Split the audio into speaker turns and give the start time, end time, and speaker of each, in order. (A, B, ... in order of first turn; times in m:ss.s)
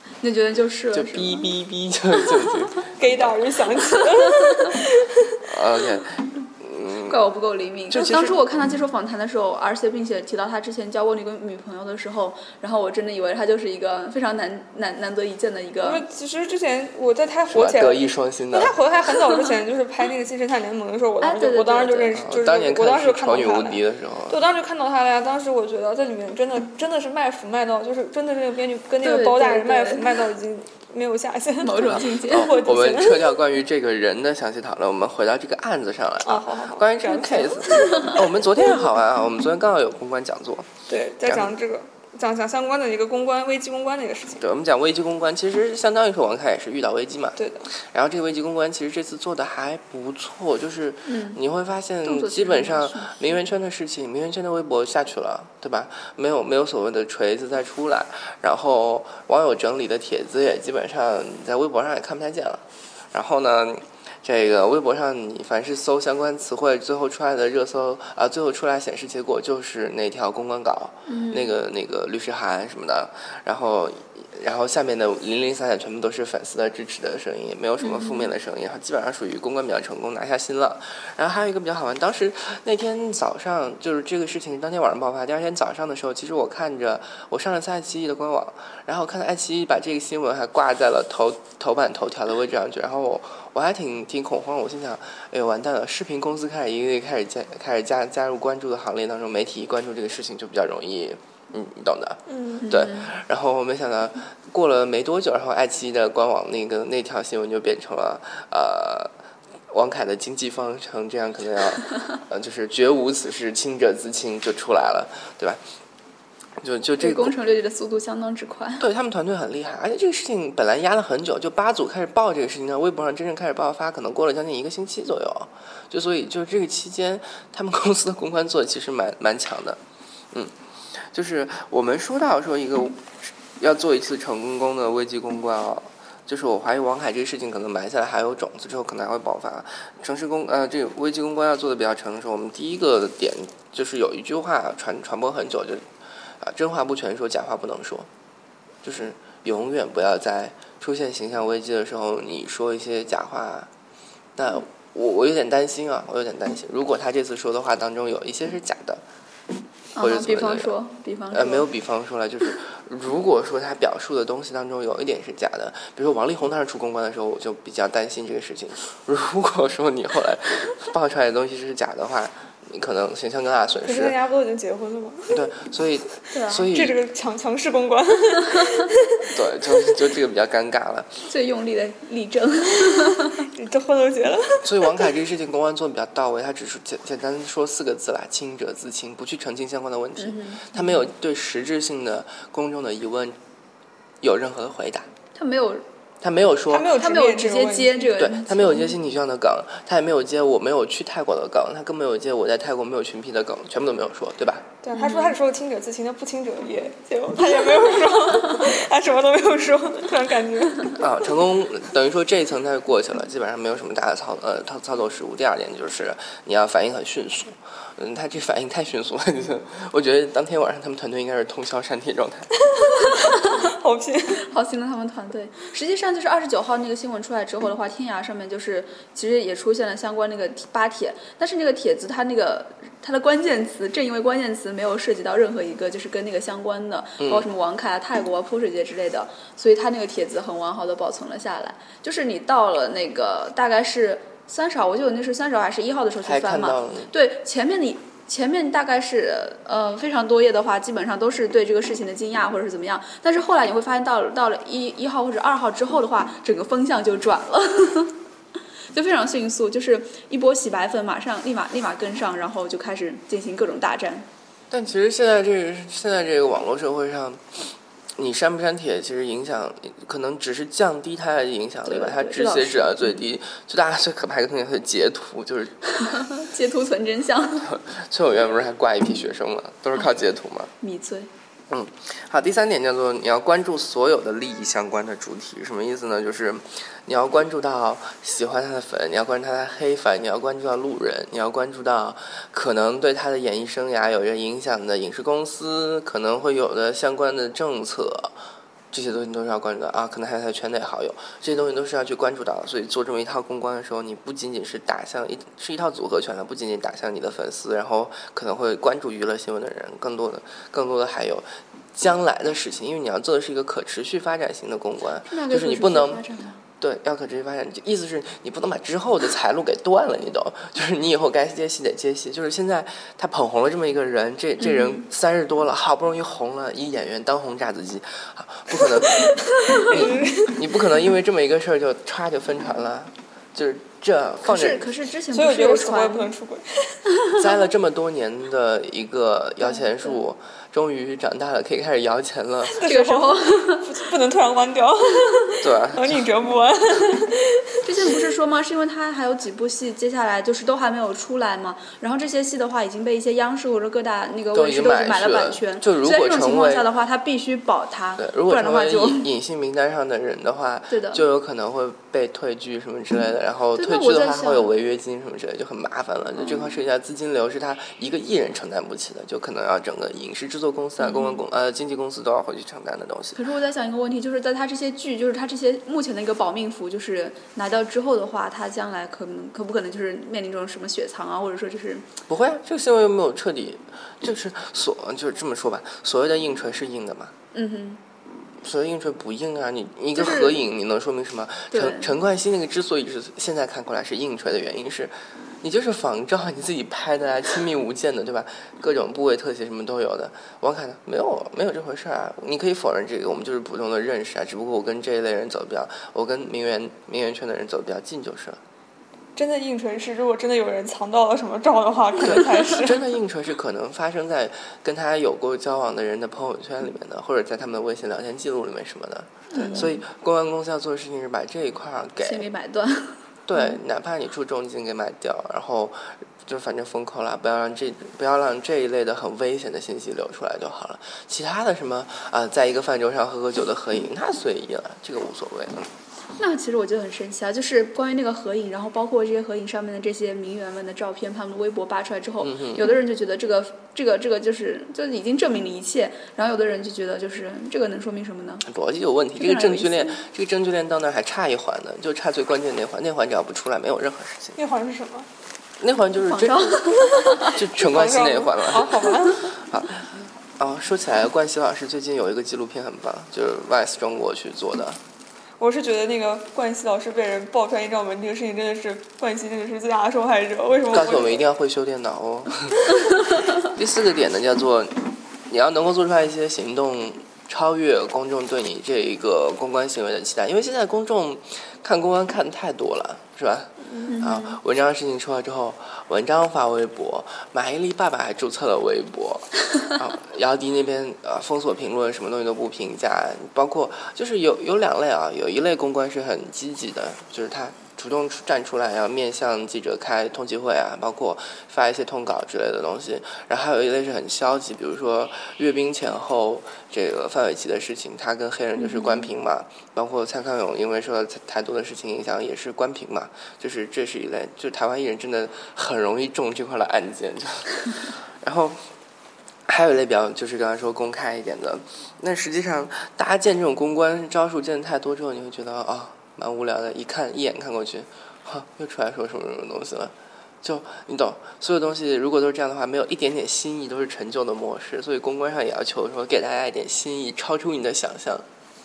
0:00.2-0:01.5 A
0:00.9-0:03.3 B
0:03.0-0:05.4 C
0:04.0-0:04.7 A
0:05.4-0:07.2 B
0:07.0-0:16.0 A
0:07.9-0:08.4 B
0:15.8-0:33.4 C
0:17.5-0:18.7 B
0:21.2-0:22.2 A
0:22.1-0:24.4 B
0:29.0-0:30.2 A
0:31.6-0:32.6 A
0:31.9-0:40.7 B
0:36.2-0:38.2 C
0:37.7-0:38.2 A
0:40.9-0:44.4 C
0:41.2-0:41.5 B
0:44.4-1:49.1 B
0:47.4-0:47.7 C
0:51.1-0:51.4 A
0:52.0-0:53.4 A
1:11.1-1:11.5 A
1:17.8-1:18.3 A
1:42.3-1:42.6 C
1:42.6-1:43.1 A
1:49.7-1:55.6 B
1:56.6-1:57.4 B
1:57.0-1:58.8 A
1:58.8-2:09.8 B
2:10.3-2:25.8 B
2:26.4-2:28.1 B
2:28.8-2:33.7 B
2:34.4-2:39.0 B
2:40.0-2:41.7 A
2:40.0-2:40.8 B
2:41.3-2:54.2 B
2:53.8-2:55.4 C
2:55.3-2:57.0 B
2:56.3-2:56.7 A
2:56.7-2:59.3 C
2:59.3-3:01.2 B
3:01.3-3:03.5 A
3:03.3-3:05.1 C
3:04.6-3:13.4 B
3:10.2-3:11.0 A
3:14.2-3:15.1 B
3:15.4-3:15.8 A
3:16.2-3:16.9 B
3:16.7-3:18.1 C
3:16.9-3:19.0 A
3:18.2-3:24.7 B
3:24.8-3:31.0 C
3:24.9-3:25.4 A
3:31.0-3:42.5 B
3:42.6-3:44.4 C
3:43.0-3:43.7 A
3:44.4-4:18.2 A
3:57.2-3:57.5 B
4:06.2-4:07.1 B
4:18.9-4:24.3 A
4:24.7-4:27.4 B
4:28.2-4:35.8 B
4:31.9-4:33.2 A
4:36.0-4:37.7 A
4:37.6-4:40.7 B
4:40.8-4:41.3 A
4:41.7-4:58.4 B
4:58.9-5:16.2 B
5:15.3-5:16.6 A
5:16.8-5:34.8 B
5:24.6-5:25.0 A
5:29.3-5:30.6 C
5:34.4-5:36.3 A
5:35.3-5:37.0 C
5:37.3-5:42.8 B
5:39.6-5:40.2 A
5:42.7-5:47.9 C
5:42.8-5:44.0 A
5:45.6-5:46.2 B
5:47.8-5:59.3 A
5:54.5-5:56.9 B
5:58.2-6:13.4 B
6:00.9-6:01.2 A
6:03.8-6:04.7 A
6:06.4-6:06.7 A
6:11.0-6:11.4 A
6:13.4-6:22.1 A
6:22.3-6:27.3 B
6:27.5-6:28.0 A
6:28.6-6:48.6 B
6:30.2-6:30.6 A
6:31.7-6:32.1 A
6:49.4-6:53.0 C
6:52.7-7:02.4 B
6:59.5-7:00.0 A
7:02.2-7:03.8 A
7:03.5-7:15.9 B
7:16.4-7:28.7 A
7:22.4-7:22.9 B
7:28.7-7:34.6 B
7:29.4-7:30.2 A
7:34.6-7:35.3 C
7:35.8-7:45.0 B
7:36.3-7:37.6 A
7:37.4-7:39.4 C
7:45.6-7:51.4 C
7:50.9-8:38.8 B
8:04.1-8:04.6 A
8:28.8-8:29.3 A
8:39.7-8:58.4 B